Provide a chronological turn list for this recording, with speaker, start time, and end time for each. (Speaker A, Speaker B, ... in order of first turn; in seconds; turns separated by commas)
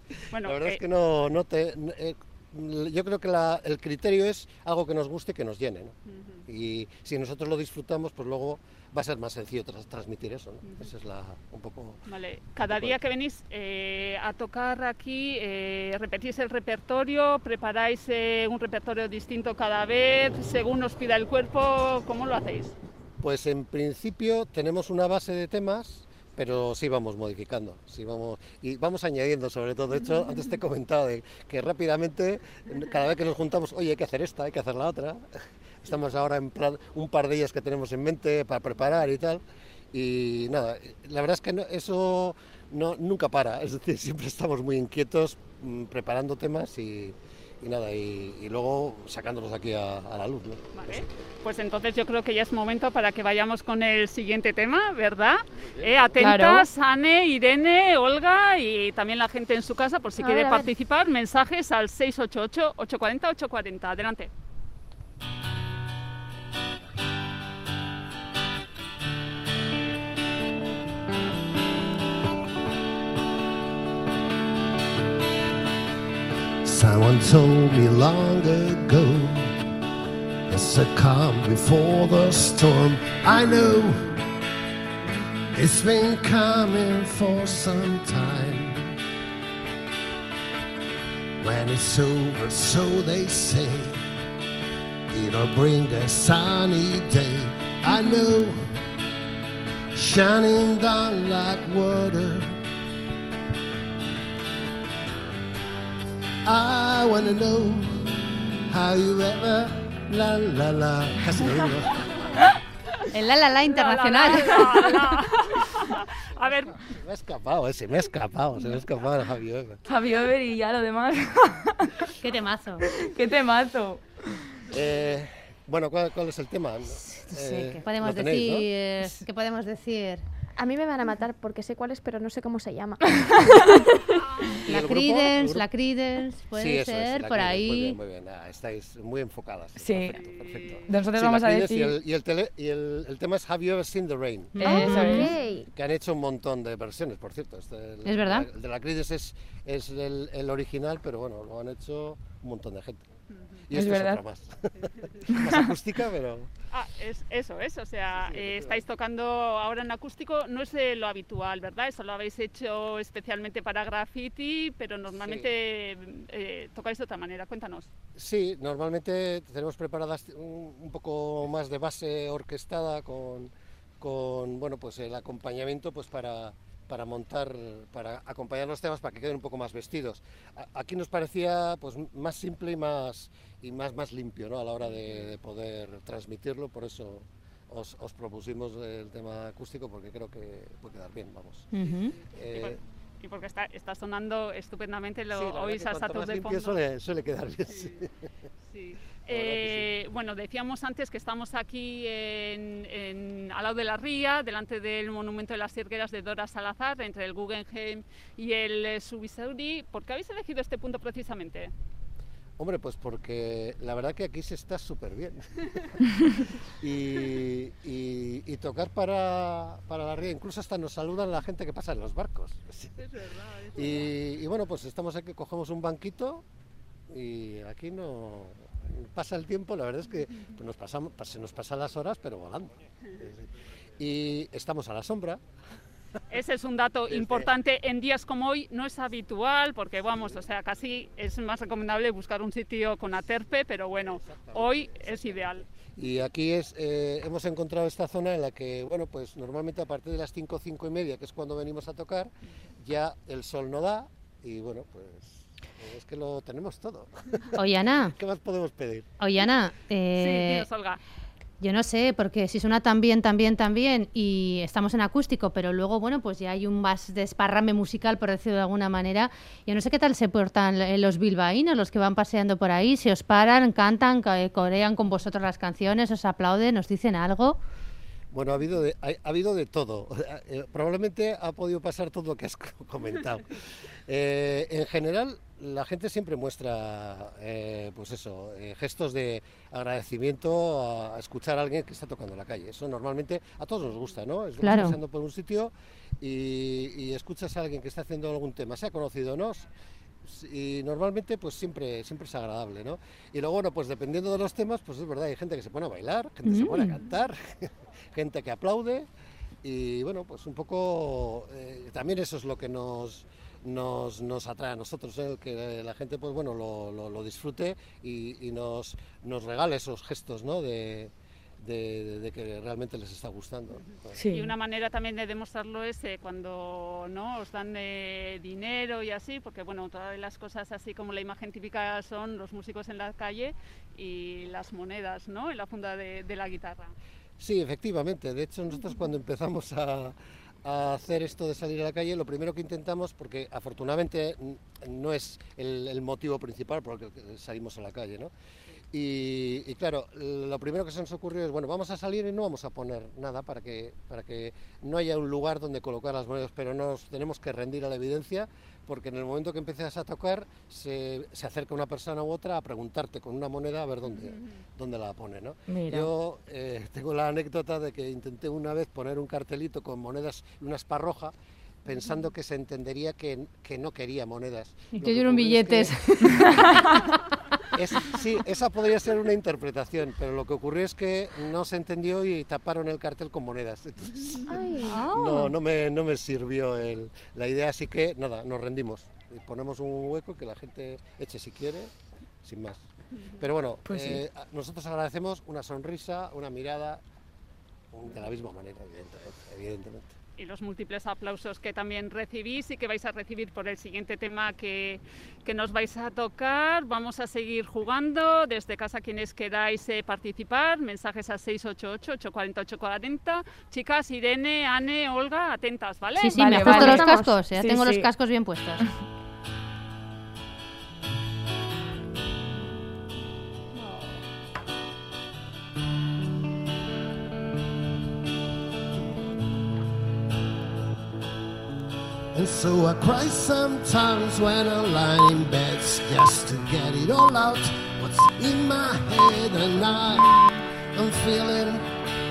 Speaker A: 0.2-5.9, Speaker B: 0.3-0.8, Speaker B: 6.1-6.4, Speaker A: 6.5-12.0, Speaker B: 10.6-10.9, Speaker B: 12.1-22.7, Speaker A: 12.7-12.9, Speaker A: 23.2-35.2, Speaker A: 35.8-51.0, Speaker B: 50.7-64.3, Speaker A: 55.6-56.2, Speaker C: 56.2-56.6, Speaker D: 60.2-60.7, Speaker E: 76.6-79.5, Speaker E: 80.5-84.2, Speaker E: 85.5-89.0, Speaker E: 91.4-94.0, Speaker E: 95.1-98.6, Speaker D: 97.9-98.2, Speaker E: 99.9-102.6, Speaker E: 106.4-112.1, Speaker F: 113.1-115.1, Speaker B: 113.7-116.8, Speaker A: 116.3-119.8, Speaker C: 119.9-122.1, Speaker F: 122.2-122.8, Speaker C: 122.9-124.0, Speaker A: 124.7-128.7, Speaker F: 127.0-130.2, Speaker D: 130.6-133.9, Speaker F: 134.6-138.0, Speaker A: 134.6-135.7, Speaker A: 136.6-153.0, Speaker C: 139.8-140.2, Speaker B: 140.1-140.9, Speaker C: 140.9-142.0, Speaker C: 144.6-145.3, Speaker F: 144.6-145.3, Speaker D: 144.6-145.7, Speaker F: 148.0-148.4, Speaker A: 153.7-156.5, Speaker C: 153.7-154.2, Speaker C: 155.3-155.6, Speaker B: 156.7-167.9, Speaker A: 158.1-158.8, Speaker A: 165.1-165.5, Speaker A: 168.1-192.8, Speaker D: 191.7-192.1, Speaker B: 192.5-196.8, Speaker A: 195.3-198.2, Speaker B: 198.7-211.7, Speaker A: 199.3-199.9, Speaker A: 212.6-215.5, Speaker A: 216.3-223.0, Speaker B: 223.0-224.1, Speaker A: 223.7-226.4, Speaker A: 227.1-233.4, Speaker A: 234.0-235.4, Speaker B: 236.3-245.7, Speaker A: 237.1-237.5, Speaker A: 240.1-240.4, Speaker A: 244.0-259.1, Speaker F: 257.6-258.1, Speaker F: 259.2-260.7, Speaker B: 260.1-261.0, Speaker F: 261.6-277.6, Speaker A: 278.3-299.6, Speaker F: 294.6-295.0, Speaker A: 300.2-309.1, Speaker C: 306.4-306.9, Speaker A: 309.6-324.1, Speaker C: 324.1-324.5, Speaker B: 324.3-336.9, Speaker A: 337.4-348.3, Speaker A: 348.9-371.3, Speaker C: 365.7-366.1, Speaker A: 371.8-376.5, Speaker F: 374.9-377.1, Speaker C: 376.4-376.9, Speaker A: 377.7-391.9, Speaker D: 384.5-385.3, Speaker F: 384.8-385.3, Speaker A: 392.4-392.8, Speaker A: 393.4-397.0, Speaker C: 393.9-394.2, Speaker A: 397.9-400.1, Speaker B: 400.4-417.0, Speaker F: 416.2-418.9, Speaker C: 416.4-418.1, Speaker D: 416.6-417.3, Speaker E: 432.3-440.4, Speaker E: 440.9-441.9